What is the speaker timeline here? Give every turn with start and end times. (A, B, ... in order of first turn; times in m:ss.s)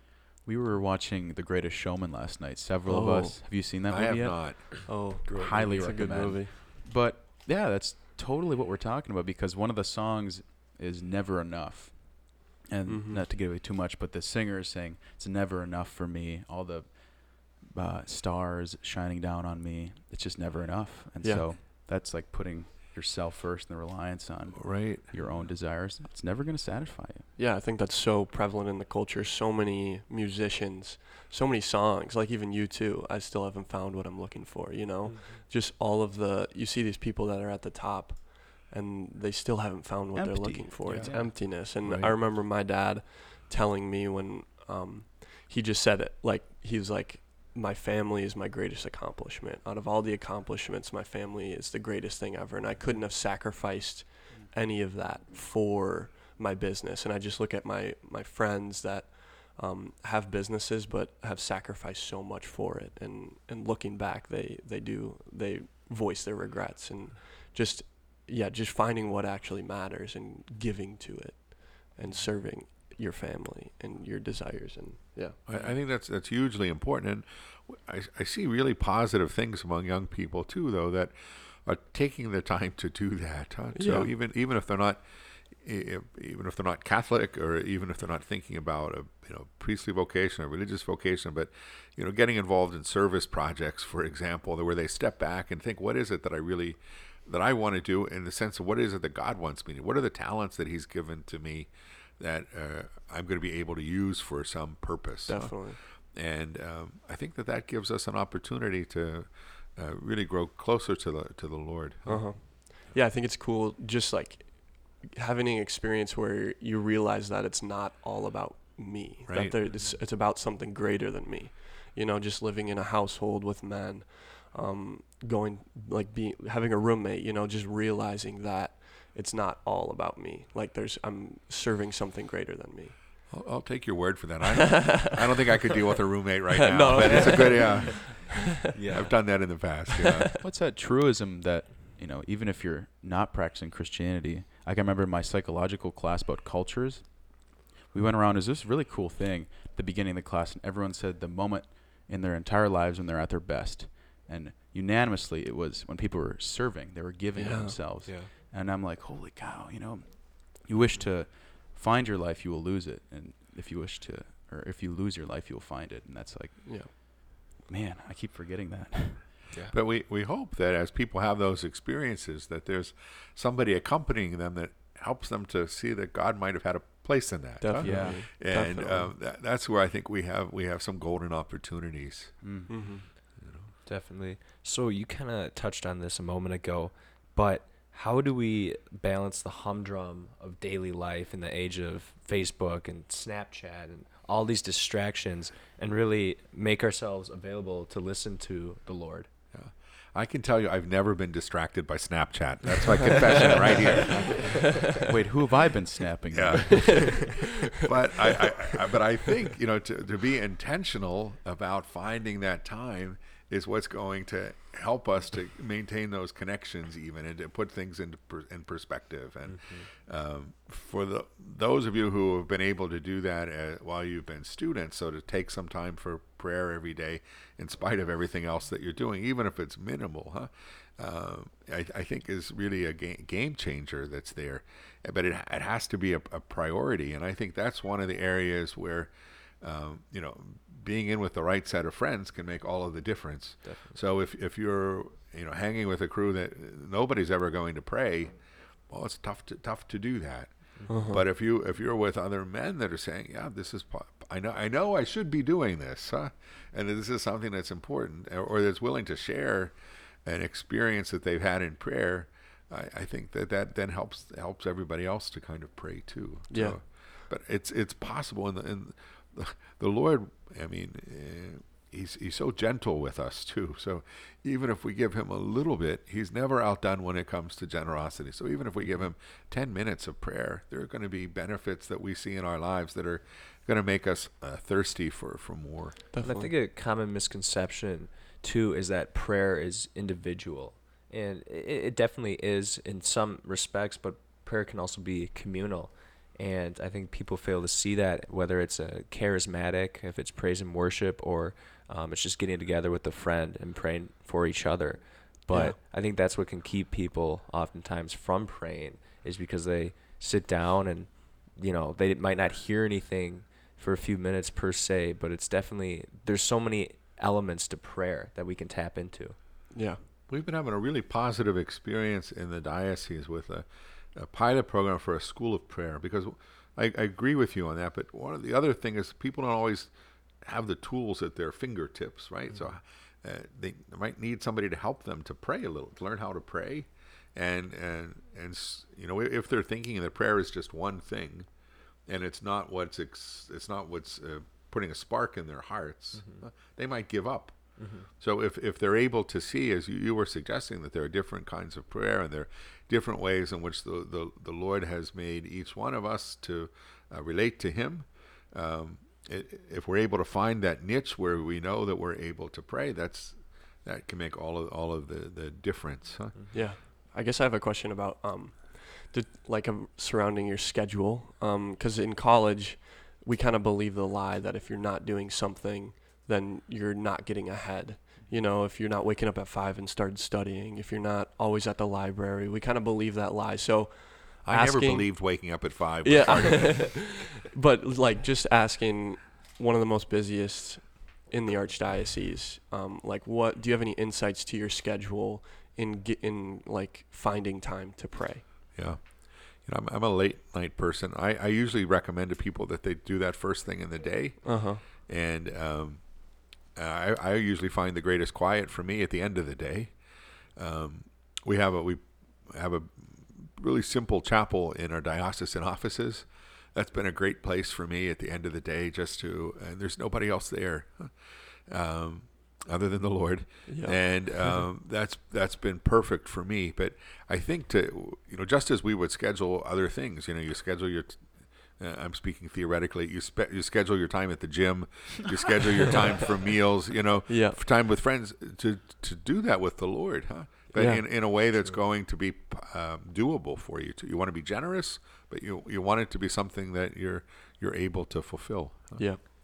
0:00.4-0:27.3 A
0:02.9-0:03.4 B
0:03.9-0:04.7 C
0:04.9-0:06.6 B
0:05.2-0:05.6 D
0:12.9-0:13.2 B
0:21.2-0:21.5 B
0:24.5-0:25.1 C
0:27.4-1:15.4 B
0:35.0-0:35.4 D
0:40.1-0:41.4 A
0:41.6-0:42.2 C
1:15.4-1:52.5 C
1:23.7-1:24.1 B
1:45.3-1:45.8 B
1:52.0-2:13.0 B
1:59.3-1:59.6 C
1:59.7-2:00.0 D
2:13.3-2:18.3 C
2:14.7-2:15.0 B
2:16.5-2:18.0 B
2:16.9-2:19.2 D
2:18.9-2:20.3 C
2:20.4-2:49.4 A
2:37.3-2:37.8 B
2:38.0-2:38.3 D
2:40.8-2:41.1 D
2:46.6-2:46.9 B
2:49.7-3:02.8 C
2:57.6-2:59.1 B
2:57.8-2:58.2 A
3:02.4-3:02.7 A
3:02.7-3:03.0 B
3:03.4-3:03.7 C
3:03.8-3:19.3 D
3:19.5-3:24.4 C
3:24.0-3:24.5 D
3:24.7-3:27.2 A
3:26.3-4:08.3 C
3:27.0-3:27.2 D
3:39.4-3:39.9 D
4:03.6-4:04.0 D
4:08.9-4:46.0 C
4:10.8-4:11.0 D
4:10.9-4:11.2 B
4:26.5-4:26.8 B
4:46.1-4:46.5 B
4:46.2-5:19.4 D
5:19.7-5:20.0 B
5:20.3-5:29.9 C
5:30.4-5:41.5 C
5:32.5-5:32.8 D
5:42.0-6:06.4 C
5:46.2-5:46.4 D
5:47.8-5:48.1 D
6:06.5-6:38.7 B
6:24.4-6:27.2 C
6:38.7-6:50.0 C
6:44.4-6:44.8 B
6:50.6-7:01.1 C
7:01.6-7:29.1 C
7:03.6-7:04.3 B
7:17.3-7:17.6 B
7:20.7-7:21.8 D
7:20.8-7:21.0 B